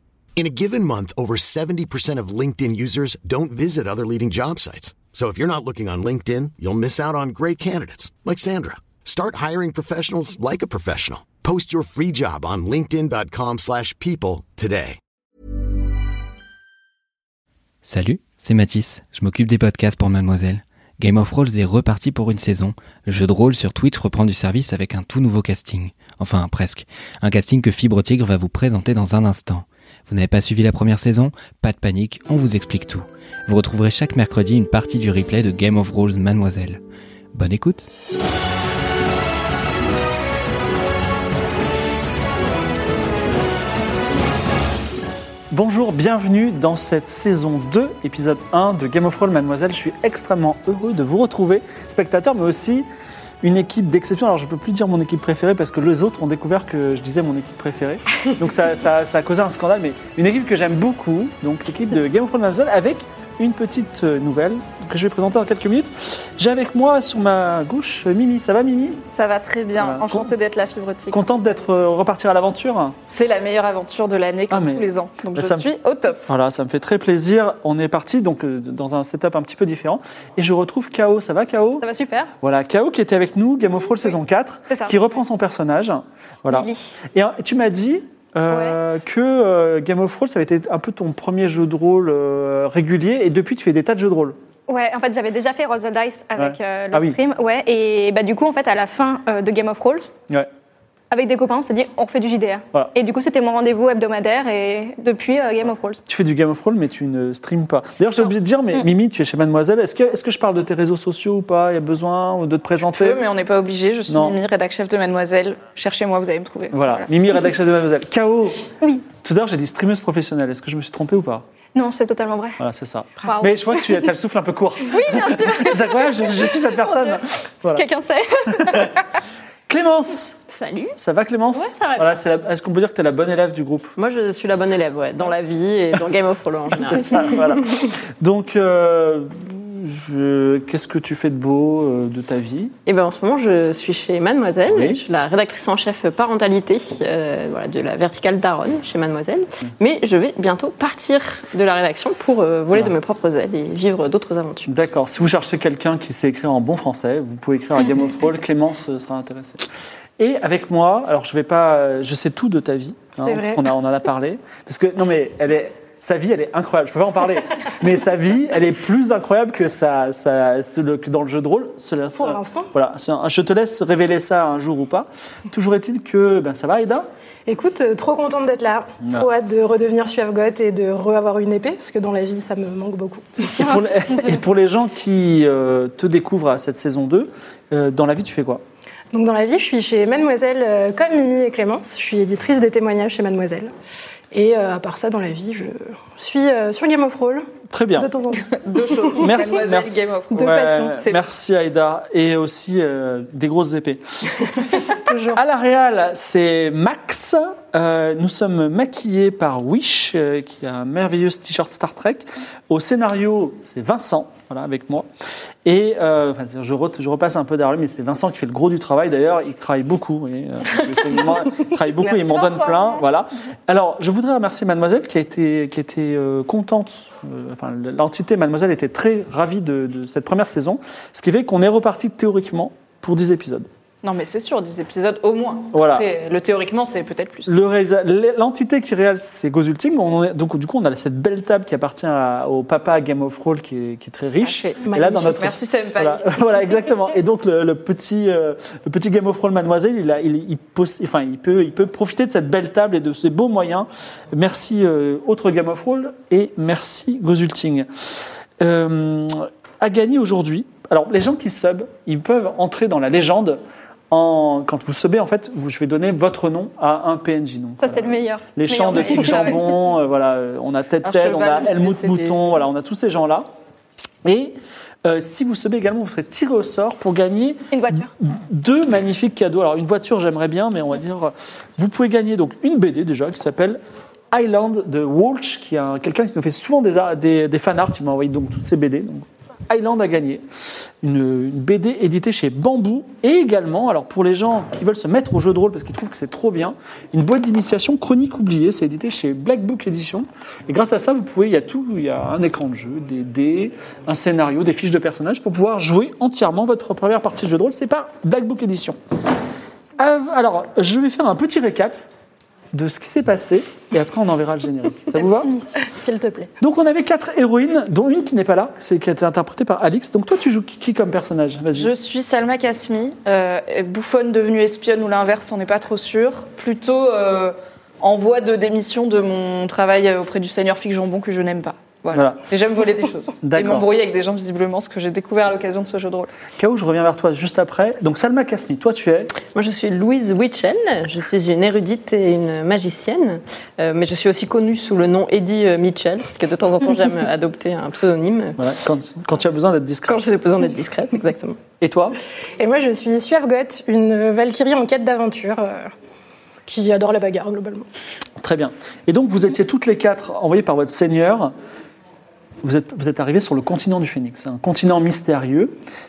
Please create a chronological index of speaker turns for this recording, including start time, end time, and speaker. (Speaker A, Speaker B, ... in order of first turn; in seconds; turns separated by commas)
Speaker A: 0.3-15.0, Speaker B: 17.8-36.8, Speaker B: 37.3-37.9, Speaker C: 45.5-52.9, Speaker C: 53.4-69.0, Speaker D: 69.1-71.2, Speaker C: 69.8-70.3, Speaker C: 71.1-73.0, Speaker D: 73.1-76.2, Speaker C: 74.5-75.7, Speaker C: 76.3-81.8, Speaker E: 81.8-82.3, Speaker C: 82.4-94.4, Speaker E: 84.7-85.0, Speaker E: 86.5-87.0, Speaker E: 88.5-88.8, Speaker E: 94.7-100.2, Speaker C: 96.3-97.2, Speaker E: 101.1-106.0, Speaker C: 106.1-113.2, Speaker D: 112.8-117.1, Speaker C: 114.1-114.4, Speaker C: 116.7-118.7, Speaker E: 118.8-119.1, Speaker C: 119.2-121.4, Speaker E: 121.7-122.6, Speaker C: 122.6-127.8, Speaker E: 123.3-124.1, Speaker E: 124.8-129.0, Speaker C: 128.4-128.9, Speaker C: 129.7-130.4, Speaker F: 130.5-130.9, Speaker C: 130.9-133.9, Speaker F: 131.6-132.2, Speaker F: 134.0-137.4, Speaker C: 136.8-142.8, Speaker F: 142.8-154.7, Speaker C: 144.7-145.0, Speaker C: 154.7-159.6, Speaker C: 160.2-177.1, Speaker G: 163.2-163.6, Speaker G: 172.2-172.7, Speaker G: 177.5-183.5, Speaker C: 179.0-179.3, Speaker C: 183.5-188.6, Speaker G: 189.1-193.7, Speaker G: 194.3-199.4, Speaker C: 197.7-198.1, Speaker D: 198.5-201.2, Speaker C: 199.2-204.0, Speaker G: 200.3-201.0, Speaker G: 205.0-205.4, Speaker C: 205.2-215.1, Speaker C: 215.6-233.7, Speaker D: 222.0-223.0, Speaker D: 234.0-237.5, Speaker C: 235.7-236.1, Speaker C: 237.4-257.9, Speaker D: 244.4-246.8, Speaker G: 244.8-245.4, Speaker C: 258.6-273.5, Speaker E: 267.8-269.7, Speaker D: 268.9-269.6, Speaker D: 271.0-272.5, Speaker C: 274.2-283.8, Speaker E: 277.7-278.1, Speaker C: 284.3-290.4, Speaker C: 291.0-309.0, Speaker C: 310.0-311.9, Speaker C: 312.7-315.5, Speaker G: 315.8-316.5, Speaker C: 316.6-321.9, Speaker D: 321.7-336.3, Speaker C: 332.1-332.4, Speaker C: 333.4-333.9, Speaker C: 336.6-339.3, Speaker F: 339.4-348.6, Speaker C: 348.6-350.3, Speaker F: 350.1-351.6, Speaker C: 351.8-352.2, Speaker G: 352.6-355.9, Speaker G: 356.6-357.9, Speaker C: 358.4-361.5, Speaker C: 362.6-365.8